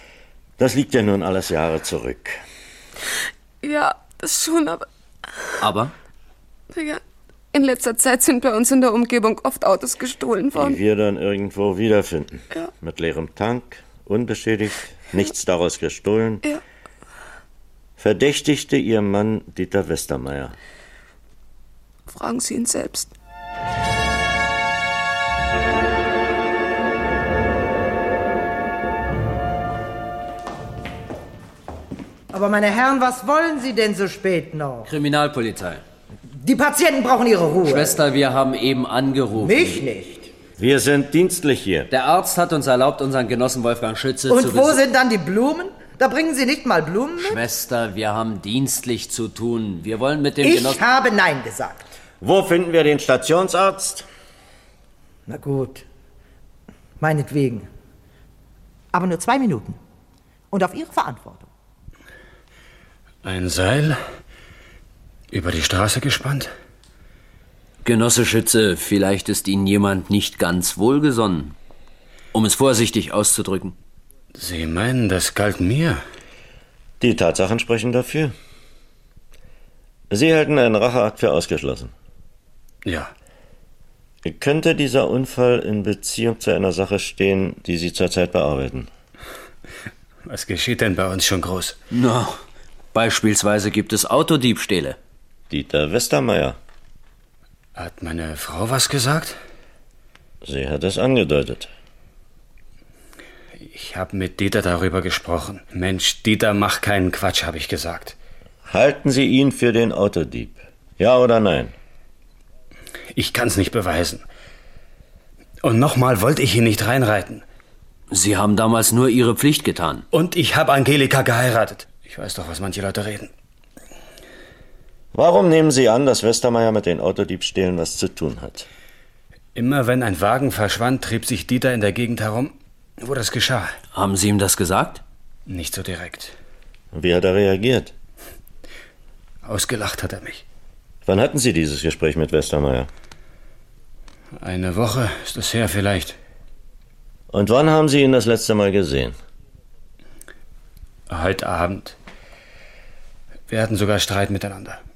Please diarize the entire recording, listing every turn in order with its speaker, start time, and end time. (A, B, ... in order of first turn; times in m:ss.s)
0:00.6-0:02.4 A
0:03.6-0:04.8 B
0:05.6-0:05.9 C
0:06.7-0:07.0 B
0:07.5-0:10.8 B
0:10.5-0:16.4 A
0:18.0-0:20.6 A
0:22.1-0:23.1 B
0:32.3-0:34.9 D
0:34.8-0:35.8 C
0:36.3-0:38.0 D
0:37.6-0:39.8 C
0:39.3-0:40.3 D
0:40.6-0:41.9 A
0:41.9-0:44.8 C
0:44.3-0:47.4 D
0:47.2-0:50.8 C
0:50.4-0:51.9 D
0:52.2-0:54.0 A
0:55.3-0:55.8 D
0:57.0-0:57.7 D
0:58.9-0:59.8 D
1:00.5-1:01.5 D
1:03.2-1:04.0 E
1:05.3-1:06.5 E
1:07.8-1:11.5 C
1:12.3-1:13.7 C
1:14.3-1:16.0 E
1:17.0-1:18.3 A
1:20.1-1:21.9 A
1:22.8-1:23.1 E
1:24.2-1:28.9 A
1:30.3-1:31.8 E
1:31.9-1:32.4 C
1:32.9-1:35.0 C
1:35.5-1:36.6 A
1:37.8-1:39.4 E
1:40.4-1:41.7 A
1:43.6-1:48.2 E
1:48.6-1:51.7 A
1:53.1-1:54.2 E
1:55.6-1:57.4 E
1:58.1-2:00.0 C
2:00.1-2:03.3 E
2:05.1-2:08.7 A
2:09.5-2:13.7 E
2:13.9-2:15.0 C
2:15.5-2:16.3 E
2:16.9-2:17.9 A
2:19.4-2:20.4 E
2:21.0-2:22.9 A
2:24.4-2:26.2 E
2:27.3-2:29.2 A
2:31.1-2:32.0 E
2:33.5-2:34.8 E